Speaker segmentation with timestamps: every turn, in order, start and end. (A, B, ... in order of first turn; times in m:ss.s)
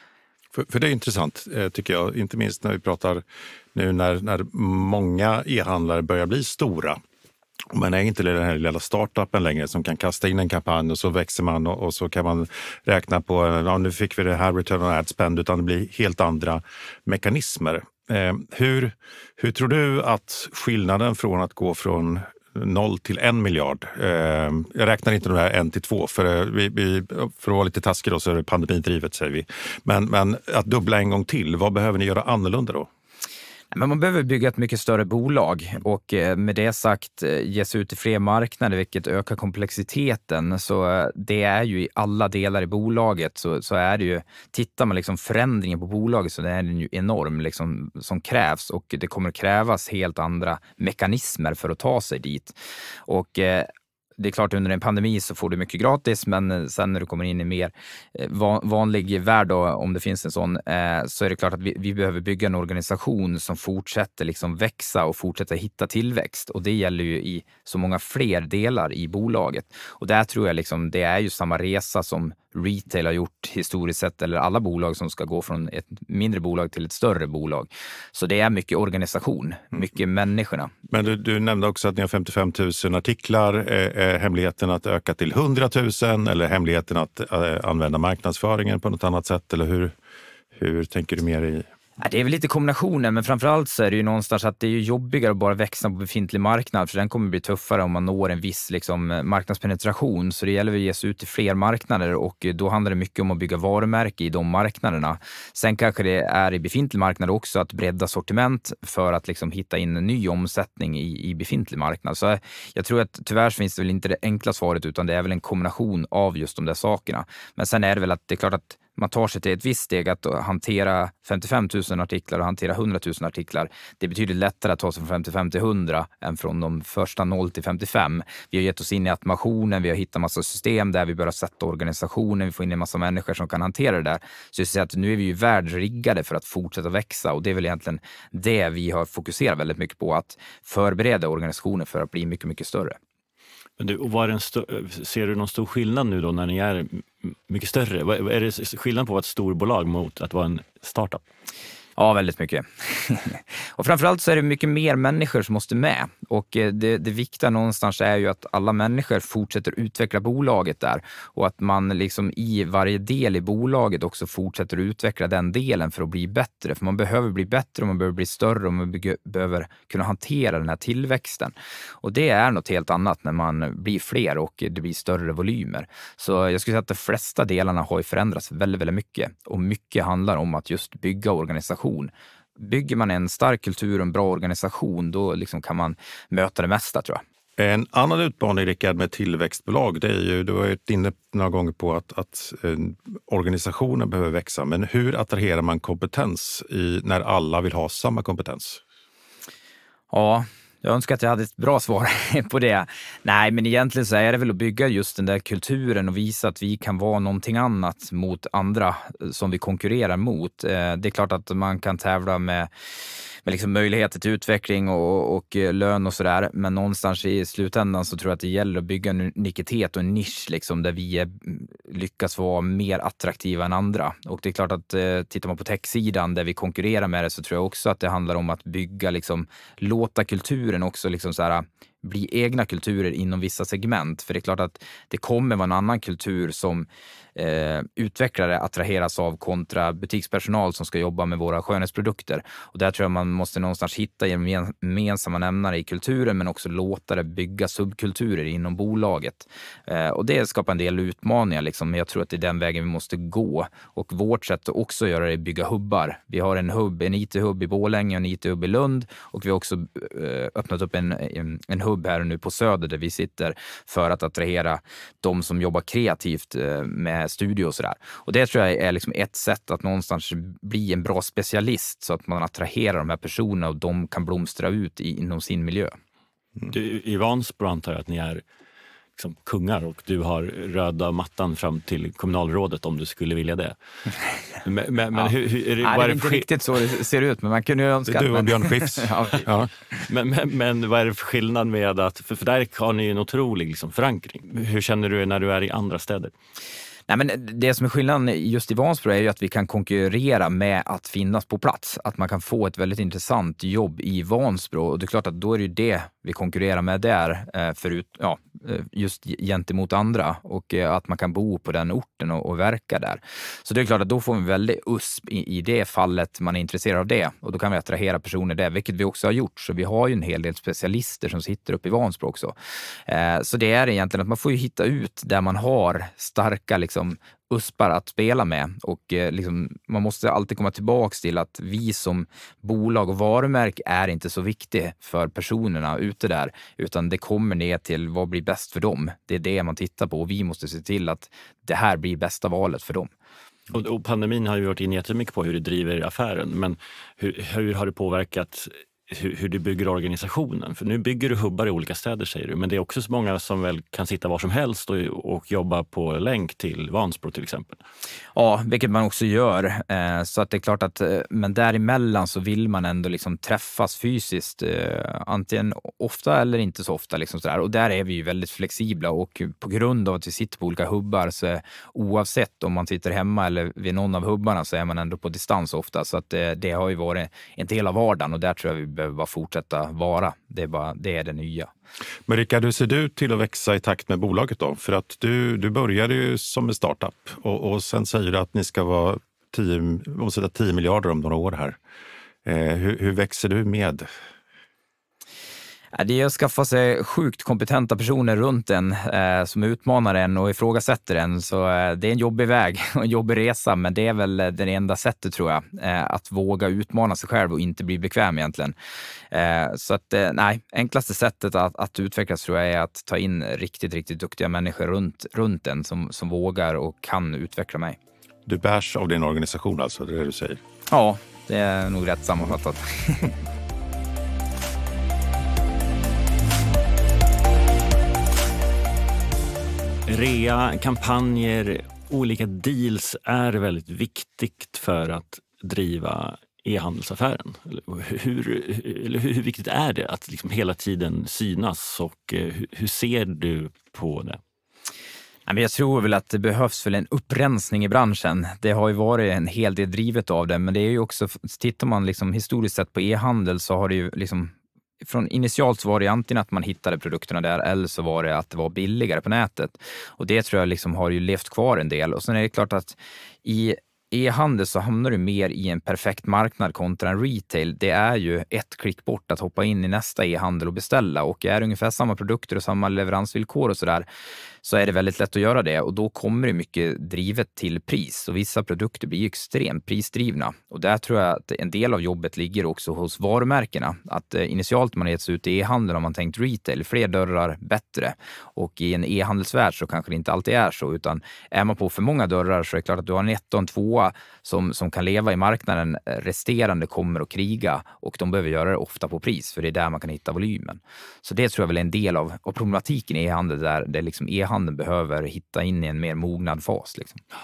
0:00.5-0:07.0 A
0:07.7-0:32.9 A
0:33.7-0:52.5 B
0:53.1-1:20.7 B
1:20.9-1:29.9 A
1:30.5-1:31.6 A
1:32.0-2:23.0 B
2:23.8-2:31.2 C
2:32.0-3:07.2 B
3:07.6-3:18.8 A
3:20.1-3:32.7 B
3:33.4-4:36.0 B
4:36.6-4:38.4 C
4:39.2-4:43.8 C
4:44.6-4:46.5 C
4:45.1-4:49.5 B
4:48.1-4:49.7 A
4:50.0-4:56.3 C
4:57.1-5:22.5 B
5:23.1-5:43.1 B
5:43.7-5:57.8 C
5:58.3-6:21.7 B
6:22.3-6:31.8 A
6:32.4-6:34.1 A
6:35.9-6:48.7 B
6:49.3-6:58.0 B
6:58.4-7:00.6 A
7:00.9-7:03.3 B
7:10.1-7:24.4 C
7:25.5-7:54.1 B
7:54.6-8:27.2 B